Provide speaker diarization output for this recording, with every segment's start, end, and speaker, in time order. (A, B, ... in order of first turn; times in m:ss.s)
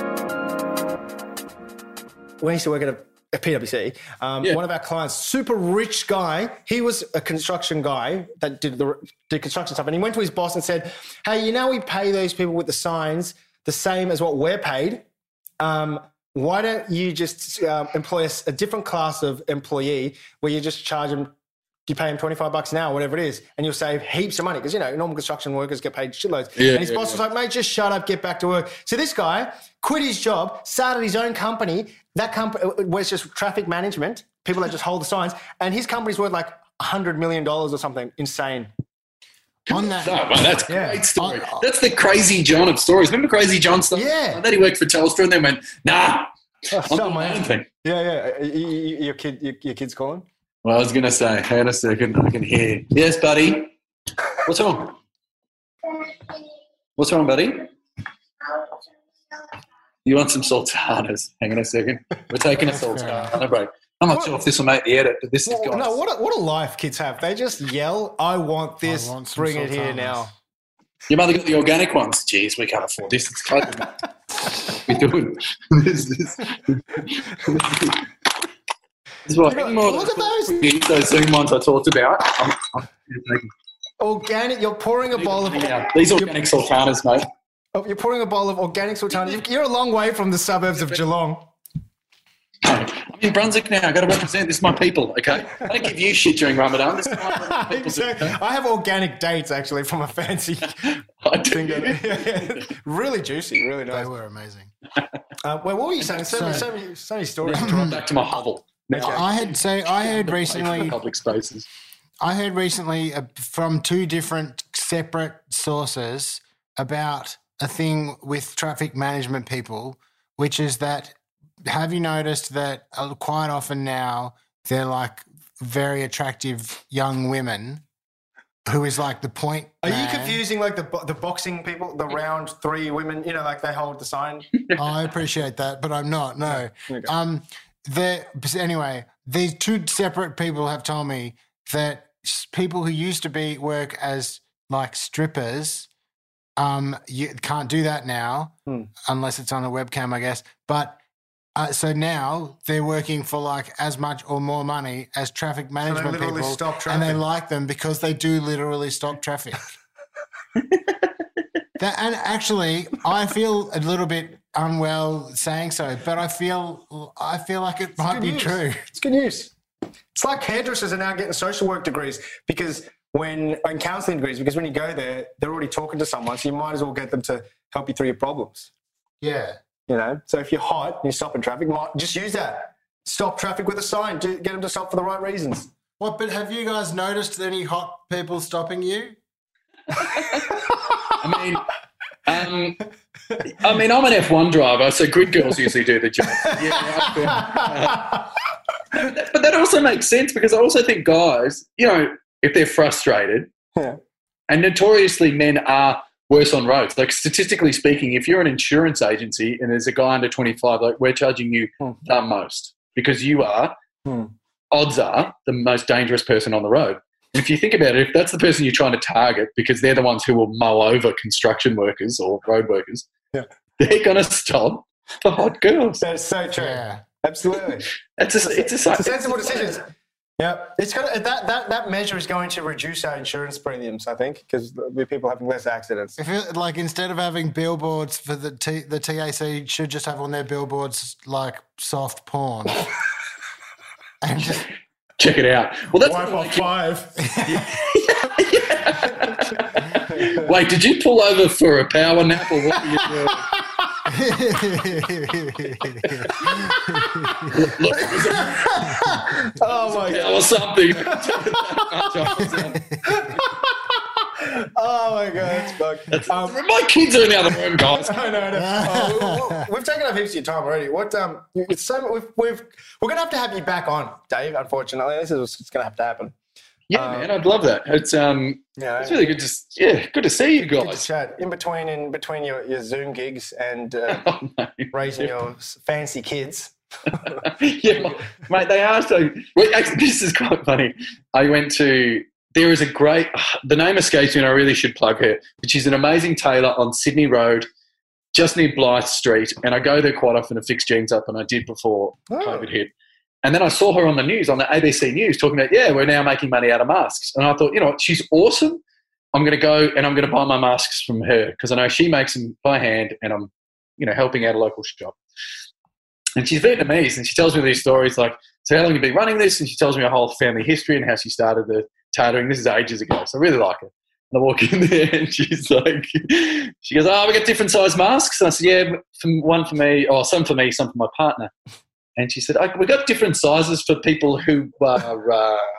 0:02.4-0:15.0 A
0:15.6-0:21.3 A
0:21.9-0:38.7 A
0:26.6-0:27.2 B
0:39.7-0:47.7 B
0:39.7-0:41.6 C
0:40.7-0:41.0 A
0:43.9-0:44.4 A
0:46.7-0:50.3 A
0:50.6-0:53.7 B
0:54.4-0:55.0 B
0:57.0-0:57.7 B
1:00.0-1:06.0 B
1:02.6-1:03.4 C
1:05.5-1:10.3 A
1:08.8-1:10.3 C
1:11.1-1:18.1 B
1:19.3-1:23.5 B
1:19.4-1:20.7 A
1:24.0-1:26.4 A
1:25.1-1:27.3 B
1:27.7-1:31.5 A
1:30.8-1:31.0 B
1:32.6-1:38.4 B
1:37.1-1:44.1 A
1:40.8-1:42.7 B
1:43.9-1:44.7 C
1:45.4-1:48.1 A
1:46.2-1:46.7 C
1:47.4-1:51.7 B
1:47.6-1:48.0 C
1:48.9-1:49.3 A
1:49.0-1:51.0 C
1:52.2-2:01.2 C
2:01.7-2:07.8 C
2:08.7-2:10.4 C
2:09.8-2:14.5 A
2:14.8-2:25.9 C
2:16.4-2:17.1 A
2:26.6-2:28.5 C
2:29.1-2:31.0 C
2:31.6-2:39.6 C
2:35.8-2:37.2 A
2:40.6-2:41.0 B
2:41.8-2:48.8 C
2:48.0-2:49.5 A
2:50.2-2:58.7 A
2:59.2-2:59.6 C
2:59.9-3:05.7 A
3:06.0-3:09.2 C
3:09.9-3:11.7 B
3:12.3-3:12.8 B
3:13.4-3:18.1 B
3:16.4-3:18.2 A
3:18.9-3:23.5 B
3:24.5-3:33.7 B
3:34.0-3:34.3 A
3:34.7-3:43.1 B
3:43.8-3:46.0 B
3:46.0-3:47.9 A
3:46.5-3:47.0 C
3:48.2-3:49.8 B
3:48.5-3:49.8 A
3:50.4-3:56.2 A
3:56.2-4:02.9 C
4:04.2-4:04.7 C
4:05.2-4:06.7 B
4:06.0-4:07.2 A
4:07.2-4:07.6 C
4:07.4-4:13.5 B
4:10.1-4:10.5 A
4:14.1-4:17.6 C
4:17.5-4:18.8 B
4:18.4-4:19.4 C
4:19.5-4:21.6 A
4:19.7-4:22.8 B
4:23.0-4:26.6 A
4:26.1-4:28.4 B
4:27.8-4:36.3 A
4:28.5-4:29.7 C
4:36.9-4:41.1 B
4:36.9-4:37.3 A
4:38.8-4:39.4 A
4:40.6-4:44.3 A
4:44.1-4:45.4 B
4:44.9-4:47.4 A
4:47.1-4:57.7 B
4:58.3-5:02.9 B
5:02.3-5:02.7 A
5:03.4-5:08.8 B
5:09.3-5:15.2 B
5:16.4-5:31.5 B
5:32.2-5:35.6 B